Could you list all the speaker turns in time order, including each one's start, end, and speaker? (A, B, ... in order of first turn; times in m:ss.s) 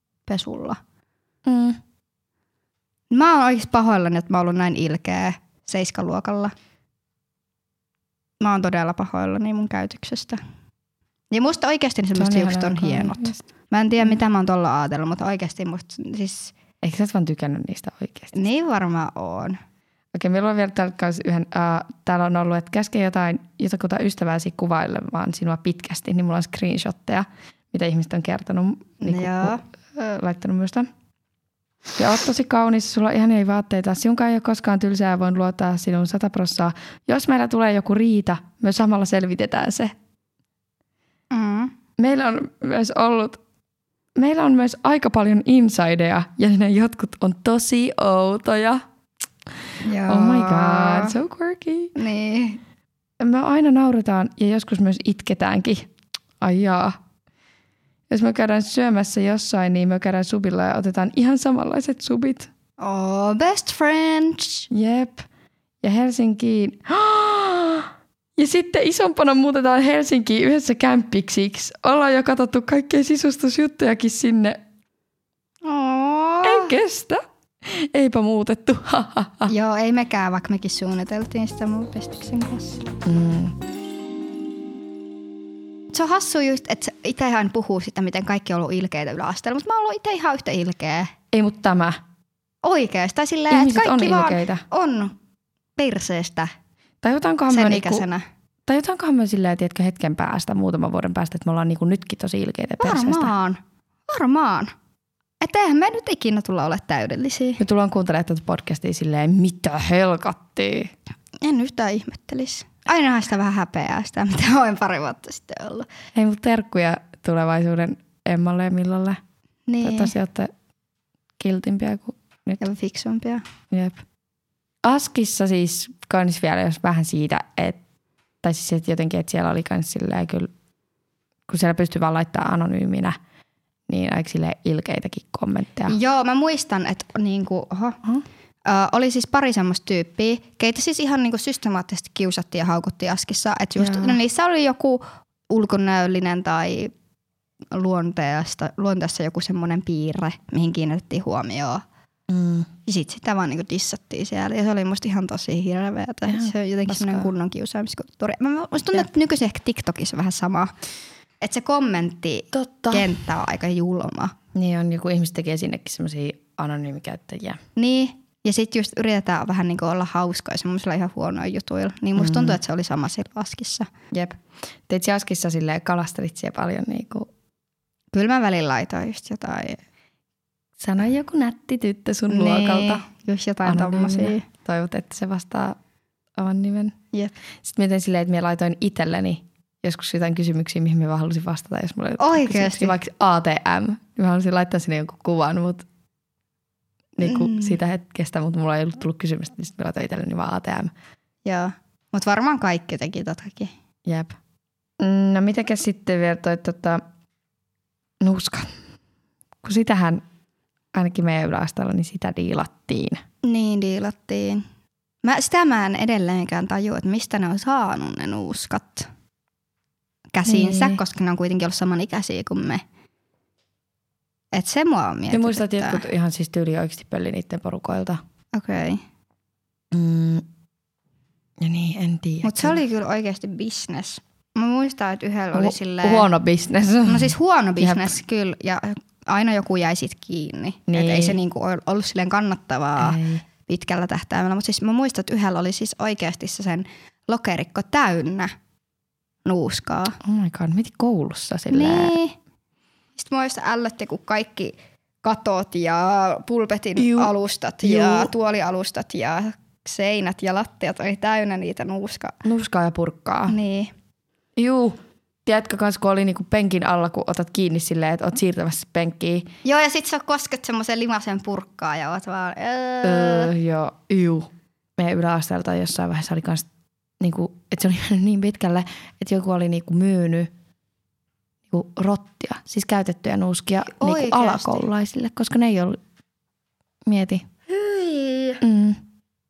0:00.3-0:00.8 A
0:01.4-0:01.8 B
0:03.1-0:06.5 A
0:08.4-0:10.4 A
0:11.3-0:16.5 A
0:12.1-0:13.4 B
0:16.8-0:18.4 B
0:18.3-0:19.6 A
0:20.1-0:30.9 B
0:29.0-0:29.6 A
0:32.0-0:39.9 B
0:41.3-0:41.7 A
0:42.0-0:43.4 B
0:44.2-0:48.8 B
0:49.8-0:51.2 A
0:50.0-0:52.0 B
0:52.0-0:52.6 A
0:53.2-0:55.9 B
0:56.4-0:57.0 B
0:58.1-1:02.5 B
1:02.8-1:04.7 A
1:04.7-1:05.2 B
1:05.8-1:14.6 B
1:15.6-1:16.7 A
1:16.4-1:19.5 B
1:19.5-1:22.8 A
1:23.0-1:23.6 B
1:25.9-1:31.1 A
1:31.3-1:32.0 B
1:32.6-1:35.2 A
1:33.5-1:34.6 B
1:35.8-1:36.5 A
1:37.0-1:38.0 B
1:37.5-1:38.2 A
1:38.6-1:43.3 B
1:42.8-1:44.7 A
1:45.4-1:47.6 A
1:47.6-1:50.9 B
1:51.4-1:55.9 A
1:56.1-1:59.2 B
1:59.7-2:00.1 A
1:59.8-2:00.5 B
2:01.4-2:02.6 B
2:02.6-2:03.4 A
2:03.7-2:04.0 B
2:04.8-2:07.8 B
2:08.4-2:10.5 B
2:11.5-2:13.2 B
2:13.9-2:16.0 B
2:15.9-2:18.0 A
2:18.6-2:26.9 A
2:23.8-2:24.2 B
2:27.7-2:31.8 A
2:32.3-2:32.7 B
2:32.8-2:40.7 A
2:36.3-2:37.3 B
2:41.4-2:44.4 A
2:42.5-2:43.1 B
2:44.5-2:47.6 B
2:47.8-2:53.9 A
2:52.2-2:52.6 B
2:54.9-2:57.3 B
2:58.1-2:59.8 A
3:00.8-3:03.0 B
3:02.3-3:04.4 A
3:03.6-3:05.8 B
3:06.4-3:06.9 B
3:07.6-3:15.8 B
3:12.2-3:13.0 A
3:17.2-3:20.9 B
3:17.2-3:17.8 A
3:21.4-3:23.7 A
3:24.0-3:24.4 B
3:25.0-3:27.0 B
3:28.2-3:28.7 B
3:29.6-3:30.2 B
3:30.9-3:33.2 B
3:33.4-3:34.6 A
3:35.2-3:39.1 A
3:40.3-3:42.8 A
3:40.4-3:41.0 B
3:44.5-3:46.0 A
3:45.3-3:48.2 B
3:48.5-3:49.0 A
3:49.9-3:50.4 B
3:51.6-3:52.8 B
3:52.4-3:56.3 A
3:55.5-3:58.1 B
3:57.0-4:08.5 A
4:00.9-4:01.4 B
4:03.0-4:03.4 B
4:09.4-4:10.2 A
4:10.2-4:12.1 B
4:11.7-4:12.4 A
4:13.2-4:22.4 A
4:17.0-4:17.3 B
4:17.8-4:18.3 B
4:22.4-4:23.6 B
4:23.5-4:23.9 A
4:24.6-4:29.5 B
4:29.6-4:33.5 A
4:33.0-4:36.6 B
4:37.2-4:40.5 B
4:41.7-4:46.0 B
4:43.9-4:44.8 A
4:47.0-4:47.5 B
4:47.7-4:48.6 A
4:48.6-4:49.0 B